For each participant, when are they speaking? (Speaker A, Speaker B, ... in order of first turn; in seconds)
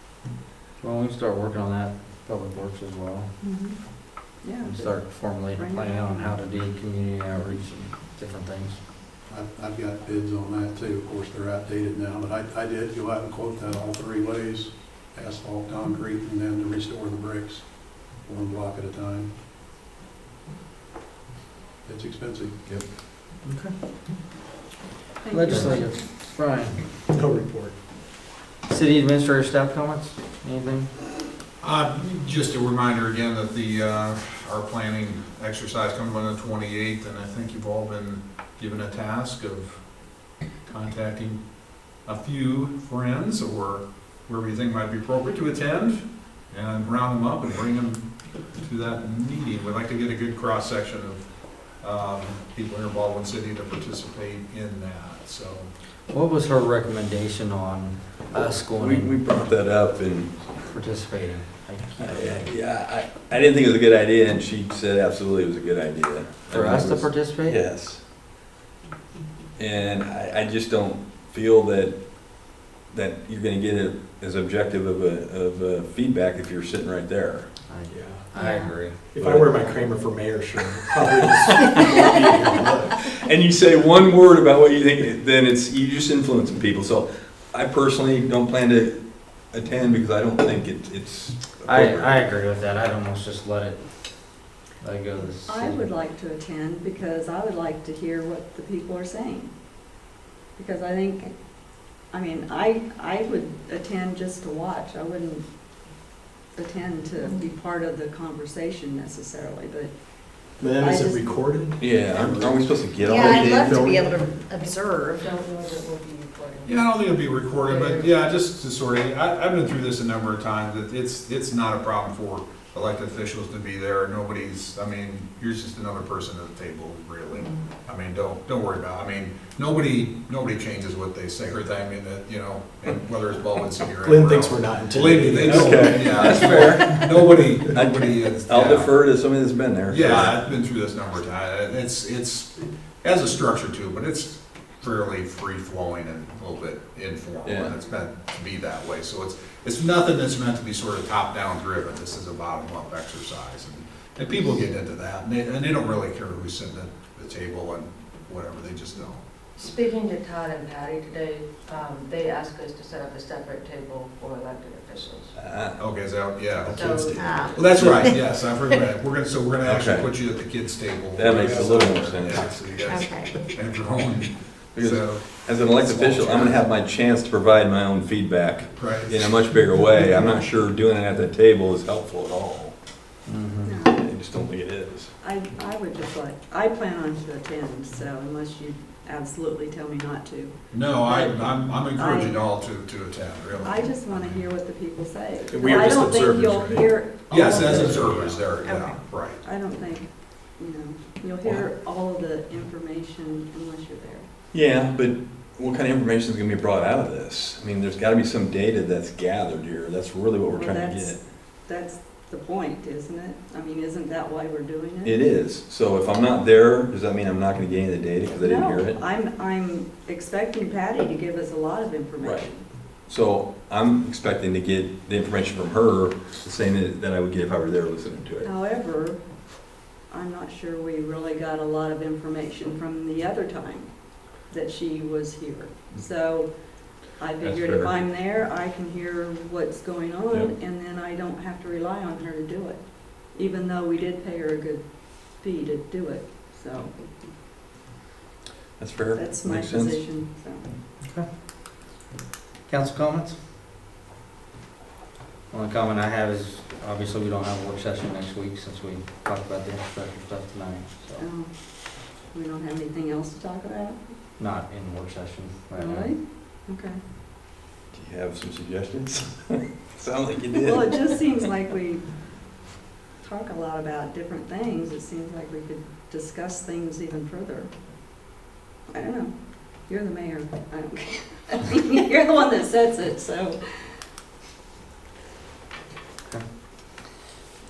Speaker A: 0.8-3.3, 4.6-8.8, 23.5-23.7, 25.3-26.8, 28.7-30.9, 56.1-59.1, 60.7-62.5, 66.5-67.5, 77.7-79.0, 91.7-93.8, 94.8-95.9, 183.2-183.7, 252.7-253.3, 255.5-261.2, 264.4-266.1
Speaker B: 3.4-3.8, 4.4-6.4, 25.2-26.1, 95.5-99.5, 100.6-101.3, 102.1-105.5, 106.5-111.4, 183.7-184.0, 185.2-192.5, 193.6-198.1, 199.4-204.3, 210.5-215.2, 218.3-222.6, 228.4-229.2, 230.1-246.9, 249.1-250.7, 261.2-261.5, 262.2-264.1, 265.8-267.0, 270.5-272.0, 273.2-277.7, 278.9-283.6
Speaker C: 9.3-19.3, 21.8-22.6
Speaker D: 27.1-27.8, 77.9-78.3, 79.0-82.9, 110.6-114.3, 134.0-136.9, 166.5-168.1, 195.5-198.5
Speaker E: 31.6-39.8, 40.7-41.4, 42.0-48.1, 48.6-51.3, 51.8-55.7, 116.6-139.0, 139.9-159.2, 165.8-176.6, 178.7-179.5, 190.7-194.5, 197.3-199.4
Speaker F: 58.3-60.5, 62.0-68.0, 69.6-77.5, 79.2-79.6, 81.9-82.2, 83.0-92.2, 111.8-114.0, 135.4-140.4, 147.4-147.7, 165.4-165.8, 169.7-170.1, 171.2-172.6, 174.8-182.8, 183.9-185.1, 204.5-211.2, 215.0-219.0, 222.2-222.5, 223.1-228.5, 237.4-237.9, 248.8-250.0, 267.9-270.9
Speaker G: 78.4-78.7, 113.0-115.3, 167.2-168.2, 172.8-173.6, 198.6-199.0
Speaker H: 115.2-116.9, 117.6-118.2, 159.6-165.3, 166.7-167.8